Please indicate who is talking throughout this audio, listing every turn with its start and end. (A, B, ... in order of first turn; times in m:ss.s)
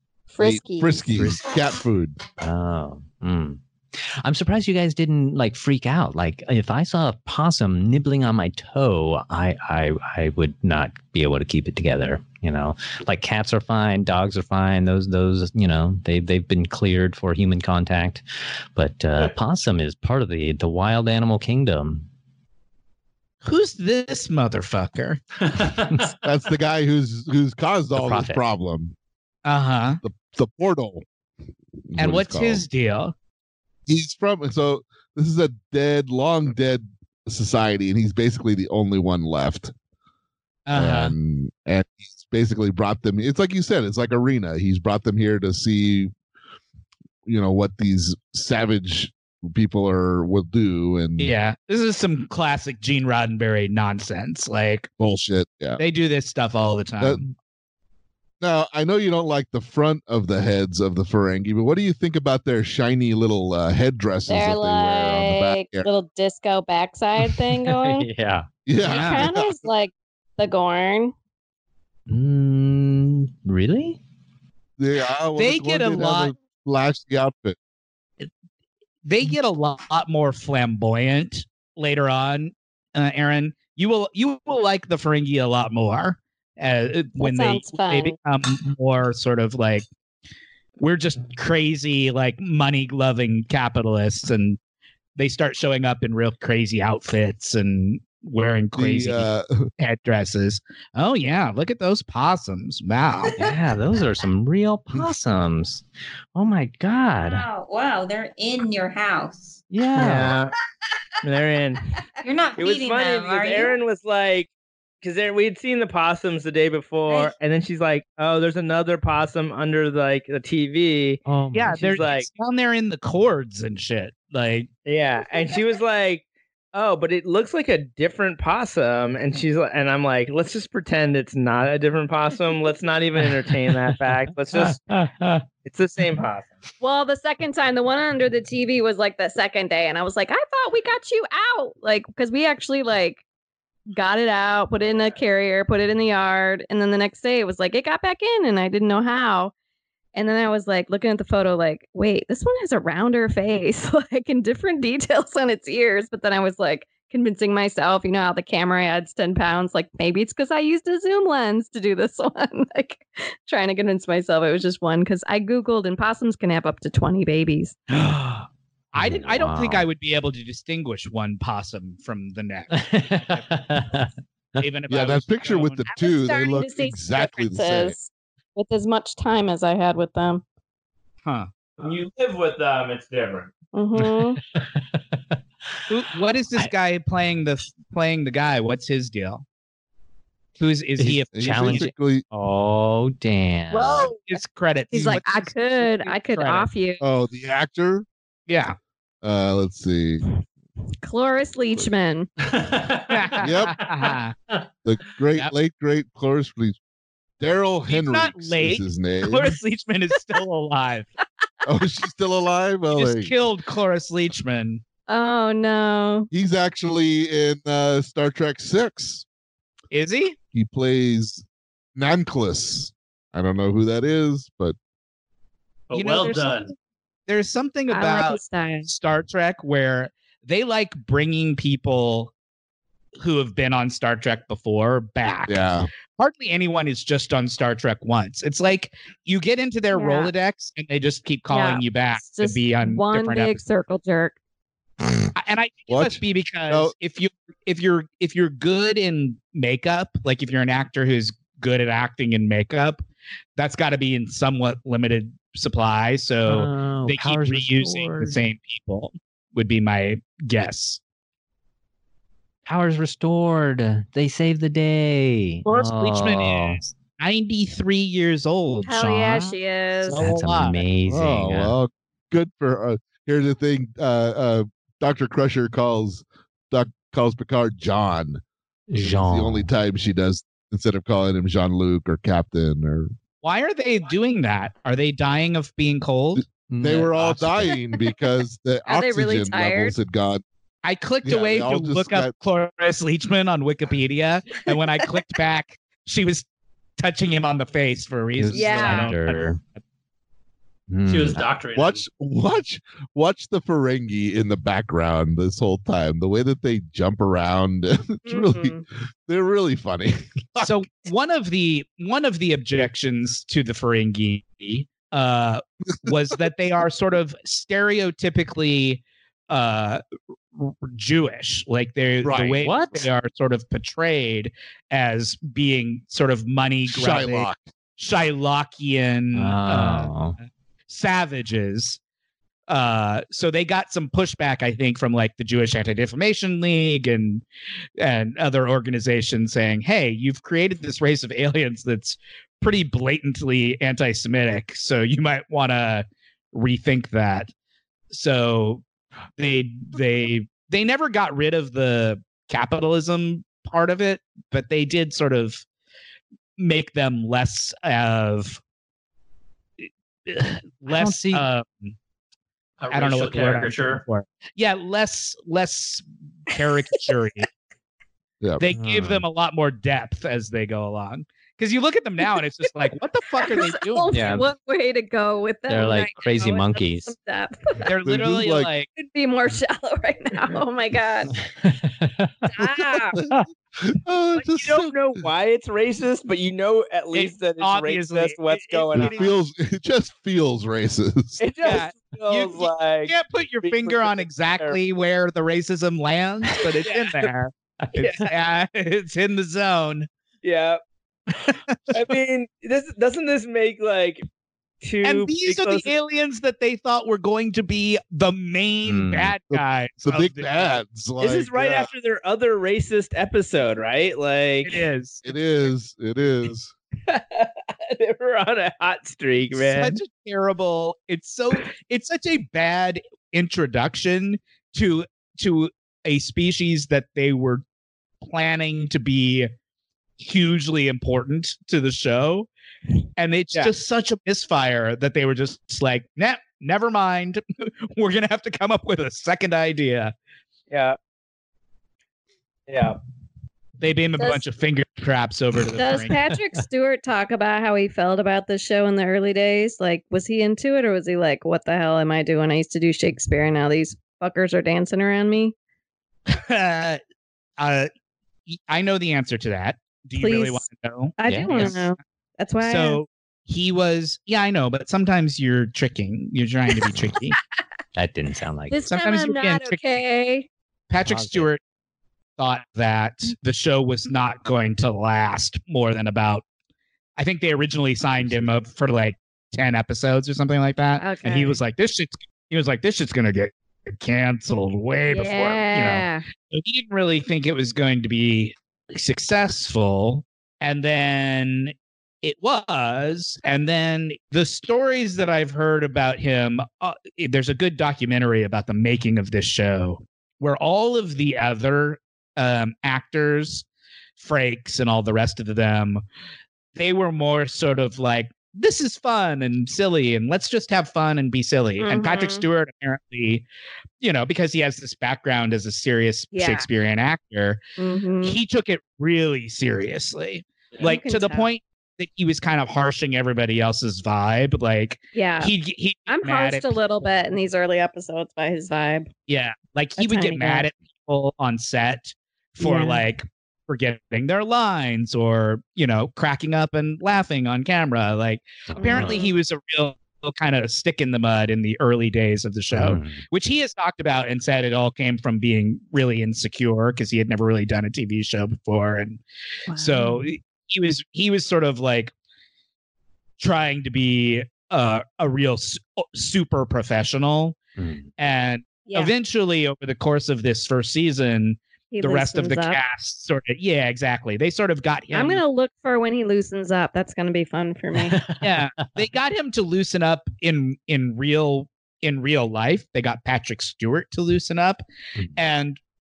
0:00.3-0:01.1 A
0:00.4-0:02.2 B
0:01.1-0:01.4 C
0:02.4-0:18.2 C
0:18.8-0:22.0 C
0:23.4-0:25.2 D
0:25.4-0:26.1 E
0:26.2-0:28.9 B
0:28.0-0:28.4 C
0:29.4-0:30.0 D
0:30.0-0:31.0 B
0:31.8-0:32.6 B
0:32.0-0:33.1 D
0:33.9-0:39.7 B
0:40.7-0:41.1 D
0:40.7-0:46.1 B
0:47.2-0:51.3 B
0:51.2-0:54.9 D
0:55.0-0:55.8 B
0:55.8-0:57.2 D
0:57.0-0:57.2 B
0:58.4-1:05.9 B
1:04.3-1:08.1 A
1:07.2-1:08.5 C
1:08.6-1:09.6 B
1:08.8-1:11.1 A
1:08.8-1:09.2 D
1:12.1-1:14.0 C
1:14.8-1:17.6 B
1:15.4-1:16.3 D
1:19.0-1:29.9 D
1:27.2-1:28.2 A
1:30.8-1:34.6 D
1:35.2-1:43.4 D
1:38.8-1:39.7 B
1:43.4-1:45.8 C
1:46.3-1:47.4 C
1:47.2-1:49.6 F
1:49.7-1:50.3 C
1:49.9-1:50.5 G
1:51.2-1:51.8 G
1:52.2-1:53.8 F
1:52.6-1:54.5 G
1:55.0-2:02.3 G
2:01.2-2:01.8 C
2:01.5-2:04.7 D
2:04.8-2:15.0 G
2:13.6-2:13.9 C
2:14.6-2:15.4 C
2:15.6-2:16.5 G
2:16.8-2:23.2 A
2:23.9-2:29.5 A
2:30.1-2:47.8 A
2:47.9-2:49.9 C
2:48.9-2:53.5 D
2:52.7-2:54.6 C
2:54.6-2:55.9 D
2:54.9-2:58.0 B
2:55.9-3:00.4 A
3:01.8-3:03.5 G
3:03.7-3:04.4 A
3:04.0-3:05.0 C
3:05.9-3:09.4 D
3:10.6-3:11.9 D
3:11.0-3:14.1 C
3:11.3-3:12.2 B
3:13.7-3:14.2 G
3:14.3-3:16.7 D
3:14.9-3:17.0 A
3:17.0-3:18.0 B
3:18.5-3:18.8 D
3:19.2-3:20.2 B
3:21.0-3:22.3 A
3:22.4-3:24.6 E
3:23.1-3:24.3 D
3:23.4-3:23.8 B
3:24.8-3:26.8 B
3:27.4-3:29.5 B
3:27.9-3:31.1 D
3:31.6-3:33.3 B
3:32.9-3:34.8 D
3:35.1-3:36.3 A
3:36.3-3:39.2 B
3:39.9-3:40.4 D
3:40.5-3:41.4 B
3:41.9-3:44.8 B
3:45.9-3:46.7 E
3:45.9-3:46.7 D
3:47.3-3:52.3 D
3:47.9-3:48.9 A
3:53.2-3:55.6 D
3:55.5-3:55.9 B
3:56.2-4:03.6 D
3:59.9-4:00.3 A
4:01.5-4:04.4 A
4:05.3-4:13.0 D
4:05.9-4:06.9 B
4:13.6-4:21.0 D
4:16.5-4:18.4 C
4:22.6-4:26.8 C
4:25.6-4:29.5 D
4:28.8-4:30.2 A
4:30.0-4:30.8 D
4:30.1-4:31.7 C
4:31.1-4:38.4 B
4:38.9-4:39.7 C
4:39.0-4:43.1 B
4:43.4-4:46.4 D
4:46.4-4:50.4 B
4:46.7-4:47.8 C
4:48.8-4:49.9 A
4:50.8-4:56.5 D
4:51.2-4:52.3 B
4:57.0-4:59.5 D
4:58.4-4:59.6 C
4:58.5-4:59.1 A
5:00.9-5:01.5 C
5:01.1-5:02.0 E
5:01.7-5:10.7 B
5:08.2-5:08.8 A
5:10.6-5:20.0 D
5:20.6-5:30.1 D
5:22.2-5:22.7 B
5:22.6-5:23.0 C
5:26.9-5:27.7 B
5:29.3-5:30.4 C
5:30.9-5:32.0 D
5:32.7-5:37.4 D
5:38.0-5:47.5 D
5:48.1-5:48.8 D
5:49.4-5:55.6 D
5:56.6-5:58.6 D
6:00.2-6:01.9 D
6:00.8-6:01.4 C
6:02.8-6:04.0 E
6:02.9-6:07.5 D
6:08.6-6:14.4 D
6:08.7-6:09.2 C
6:13.4-6:17.9 A
6:14.1-6:14.5 C
6:15.7-6:17.1 C
6:17.8-6:18.9 D
6:18.0-6:18.7 B
6:19.0-6:21.4 A
6:21.5-6:22.5 C
6:22.4-6:23.2 A
6:23.2-6:24.9 B
6:24.4-6:29.3 G
6:27.1-6:29.3 D
6:28.9-6:31.4 B
6:31.4-6:34.8 G
6:31.6-6:40.1 D
6:36.8-6:37.2 G
6:38.0-6:38.3 G
6:40.4-6:40.8 G
6:41.4-6:44.2 G
6:41.7-6:42.1 D
6:44.8-6:45.9 G
6:45.0-6:50.8 D
6:48.8-6:49.3 C
6:49.5-6:51.9 B
6:51.2-6:54.8 G
6:54.6-6:55.2 D
6:55.2-6:56.7 B
6:57.1-7:00.0 G
6:59.5-7:07.6 D
7:08.2-7:09.5 D
7:10.2-7:12.5 D
7:13.2-7:20.1 D
7:20.7-7:21.0 G
7:22.7-7:23.0 G
7:23.8-7:26.2 D
7:25.8-7:35.5 A
7:36.3-7:37.0 D
7:37.6-7:37.9 D
7:38.5-7:41.9 D
7:40.2-7:40.6 A
7:41.2-7:43.0 A
7:41.2-7:41.8 C
7:42.6-7:47.4 D
7:48.0-7:48.8 C
7:48.7-7:50.5 A
7:48.9-7:50.0 D
7:50.9-7:51.6 D
7:51.0-7:51.5 C
7:52.4-7:56.4 D
7:57.2-8:23.6 D
7:58.2-7:58.4 C
8:01.0-8:01.6 A
8:05.1-8:06.2 A
8:24.2-8:26.0 D
8:26.7-8:33.4 D
8:31.8-8:32.4 A
8:34.0-8:37.6 D
8:36.3-8:36.6 A
8:37.8-8:38.4 A
8:38.2-8:46.8 D
8:40.8-8:41.5 A
8:45.1-8:45.5 A
8:46.1-8:49.1 A
8:49.3-9:12.1 D
8:50.0-8:50.7 A
8:52.6-8:53.0 A
8:58.7-8:59.2 C
8:58.8-8:59.3 A
9:02.7-9:03.2 C
9:13.4-9:17.6 D
9:17.8-9:18.1 C
9:18.2-9:25.4 D
9:18.8-9:19.1 A
9:21.9-9:22.8 A
9:25.1-9:28.2 A
9:28.1-9:28.5 C
9:28.4-9:34.8 D
9:35.3-9:35.8 D